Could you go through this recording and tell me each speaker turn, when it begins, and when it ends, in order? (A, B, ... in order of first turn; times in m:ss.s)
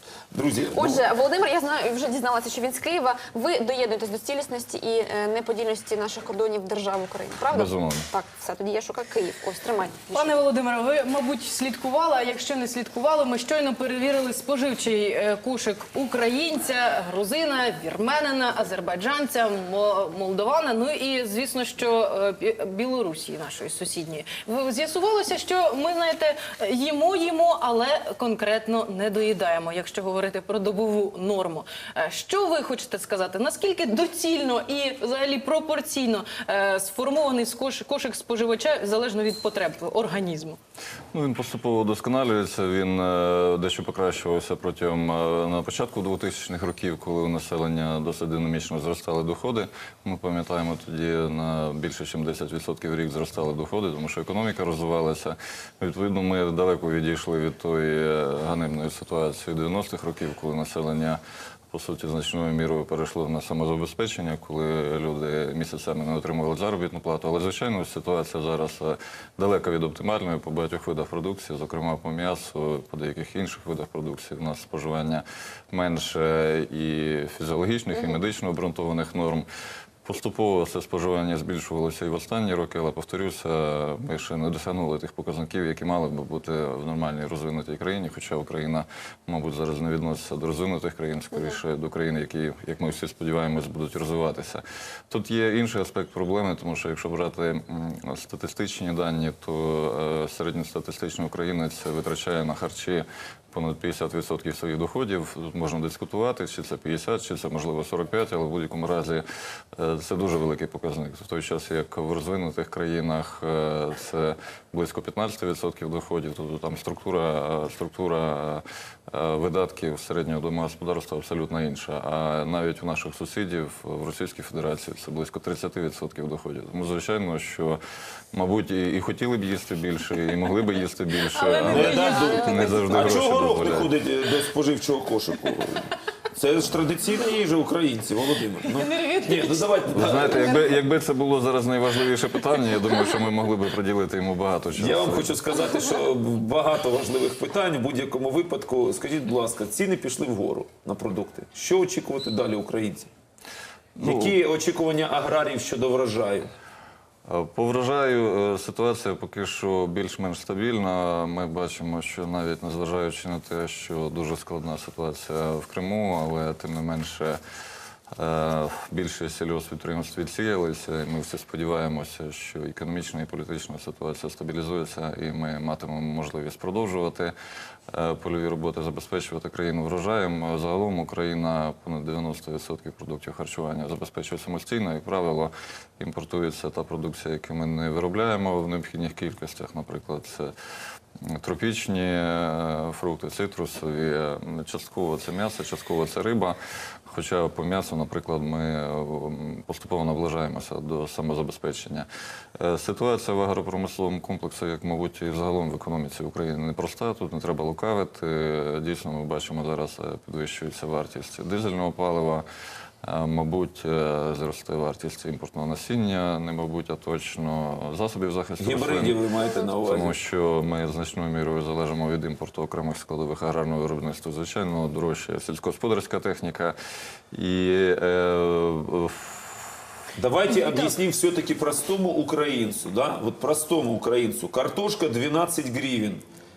0:00.3-0:01.0 A
0:00.7-0:10.3 B
0:07.6-0:08.1 C
0:10.1-0:40.6 D
0:41.1-1:01.2 C
1:01.7-1:19.5 C
1:17.9-1:18.2 B
1:20.1-1:49.2 C
1:31.3-1:31.6 B
1:49.8-2:07.8 C
2:08.3-2:13.9 C
2:11.2-2:13.0 D
2:11.6-2:20.5 A
2:18.6-2:19.8 D
2:19.9-2:25.4 C
2:20.3-2:20.8 D
2:24.8-2:33.1 A
2:34.0-2:36.5 A
2:34.1-2:34.3 C
2:37.3-2:47.4 C
2:48.2-2:57.3 C
2:57.9-3:10.5 C
3:11.3-3:16.6 C
3:17.1-3:22.1 C
3:22.6-3:32.4 C
3:33.0-3:39.2 C
3:38.6-3:40.2 A
3:39.4-3:39.7 B
3:39.9-3:46.8 C
3:47.3-3:49.5 C
3:50.2-3:56.2 A